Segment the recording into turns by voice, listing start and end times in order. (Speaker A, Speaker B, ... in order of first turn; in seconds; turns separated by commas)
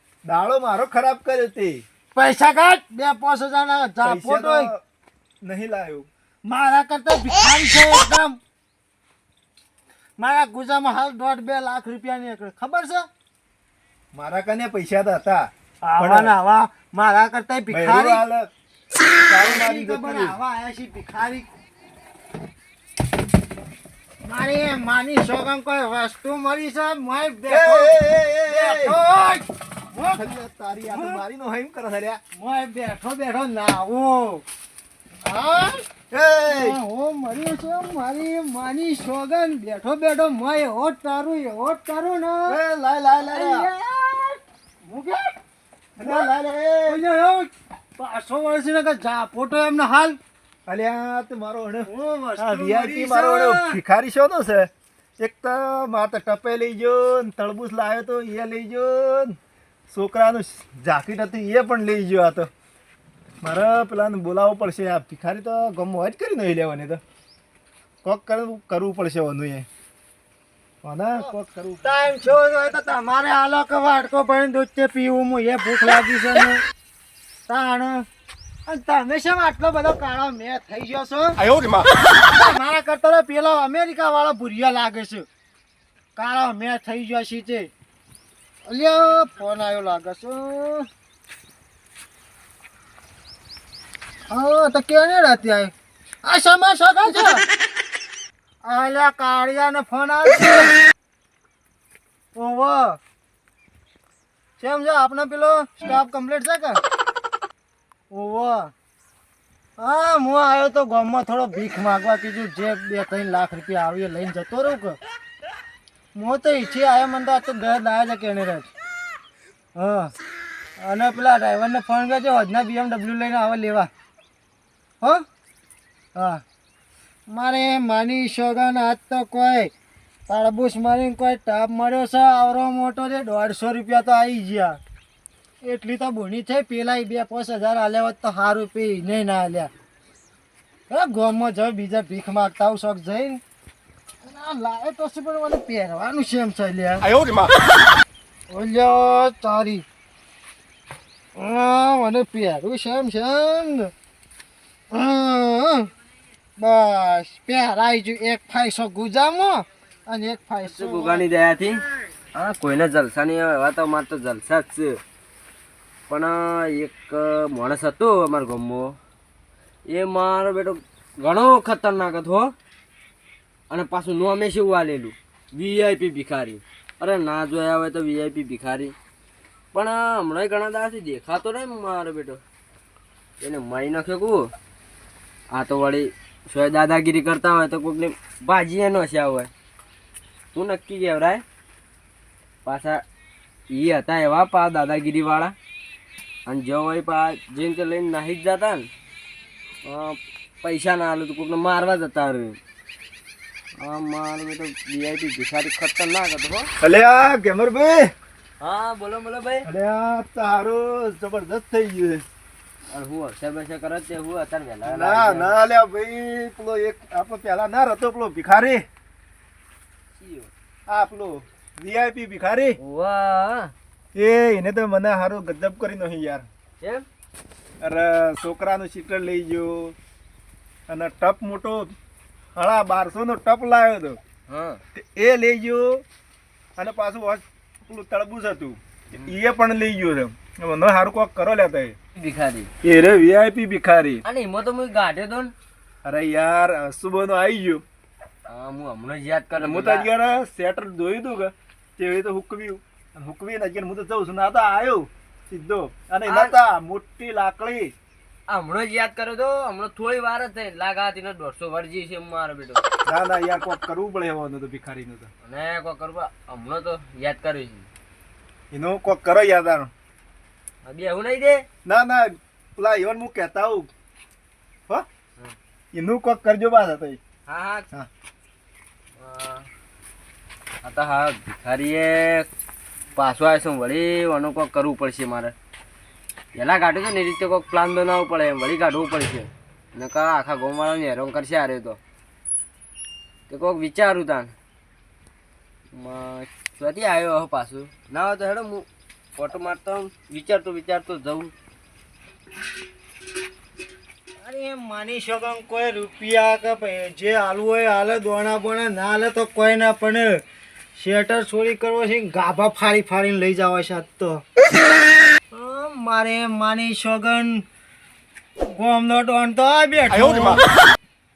Speaker A: 0.2-1.9, Speaker B: 2.1-4.7, Speaker A: 4.0-4.8, Speaker A: 5.4-6.1, Speaker B: 6.5-8.4, Speaker B: 10.2-13.1, Speaker A: 14.1-16.3, Speaker B: 15.8-18.2, Speaker A: 17.7-18.5, Speaker A: 19.3-20.4, Speaker B: 19.3-21.5, Speaker B: 24.2-30.3, Speaker A: 27.5-29.0, Speaker A: 30.1-32.2, Speaker B: 30.9-31.2, Speaker B: 32.4-34.4, Speaker B: 35.2-35.8, Speaker A: 36.1-36.8, Speaker B: 36.5-42.6, Speaker A: 42.5-43.7, Speaker B: 43.2-45.3, Speaker B: 46.0-46.3, Speaker A: 46.0-47.0, Speaker B: 46.9-50.2, Speaker A: 50.7-59.4, Speaker B: 51.9-53.8, Speaker A: 59.9-62.5, Speaker A: 63.4-67.0, Speaker A: 68.0-69.7, Speaker A: 70.8-72.2, Speaker B: 71.8-76.6, Speaker B: 77.5-78.1, Speaker B: 78.7-81.5, Speaker B: 82.2-85.3, Speaker B: 86.2-87.7, Speaker B: 88.7-90.9, Speaker B: 94.3-95.7, Speaker B: 96.2-97.5, Speaker B: 98.6-100.8, Speaker B: 102.3-103.0, Speaker B: 104.6-106.8, Speaker B: 108.1-108.7, Speaker B: 109.8-115.0, Speaker B: 116.2-118.7, Speaker B: 119.8-120.1, Speaker B: 120.8-123.9, Speaker B: 126.2-126.4, Speaker B: 127.3-129.7, Speaker B: 130.3-134.8, Speaker B: 135.6-139.7, Speaker B: 140.9-143.4, Speaker B: 144.2-147.2, Speaker B: 148.5-149.8, Speaker B: 151.4-153.9, Speaker B: 154.9-155.9, Speaker B: 156.6-161.3, Speaker C: 160.7-165.0, Speaker C: 166.1-169.0, Speaker C: 169.9-172.6, Speaker C: 173.7-178.9, Speaker C: 179.7-182.4, Speaker C: 183.4-184.5, Speaker C: 185.5-189.5, Speaker C: 190.5-191.4, Speaker C: 192.7-193.0, Speaker C: 193.7-195.6, Speaker C: 196.5-198.9, Speaker C: 199.8-202.6, Speaker C: 203.8-206.7, Speaker A: 206.8-208.1, Speaker C: 208.6-209.7, Speaker A: 209.7-212.3, Speaker C: 212.9-215.6, Speaker A: 214.8-218.8, Speaker C: 220.2-220.5, Speaker A: 220.9-222.8, Speaker C: 222.8-223.7, Speaker A: 224.2-226.5, Speaker A: 227.8-230.0, Speaker A: 230.9-231.9, Speaker A: 232.6-234.2, Speaker C: 234.5-234.8, Speaker A: 234.9-236.0, Speaker A: 236.8-242.0, Speaker C: 242.2-242.7, Speaker A: 242.8-244.2, Speaker C: 244.2-245.5, Speaker A: 246.0-247.8, Speaker C: 248.5-250.1, Speaker A: 249.6-257.9, Speaker C: 256.3-256.6, Speaker C: 258.5-262.8, Speaker A: 263.1-265.3, Speaker C: 265.4-267.9, Speaker A: 268.7-269.9, Speaker C: 270.8-271.6, Speaker A: 271.9-273.9, Speaker A: 275.9-277.2, Speaker C: 277.5-277.9, Speaker C: 279.2-279.7, Speaker C: 280.8-282.5, Speaker C: 283.1-285.5, Speaker C: 286.6-292.0, Speaker C: 293.5-294.5, Speaker C: 295.9-301.5, Speaker B: 304.4-310.4, Speaker B: 311.0-314.4, Speaker B: 315.5-317.6, Speaker B: 318.7-320.7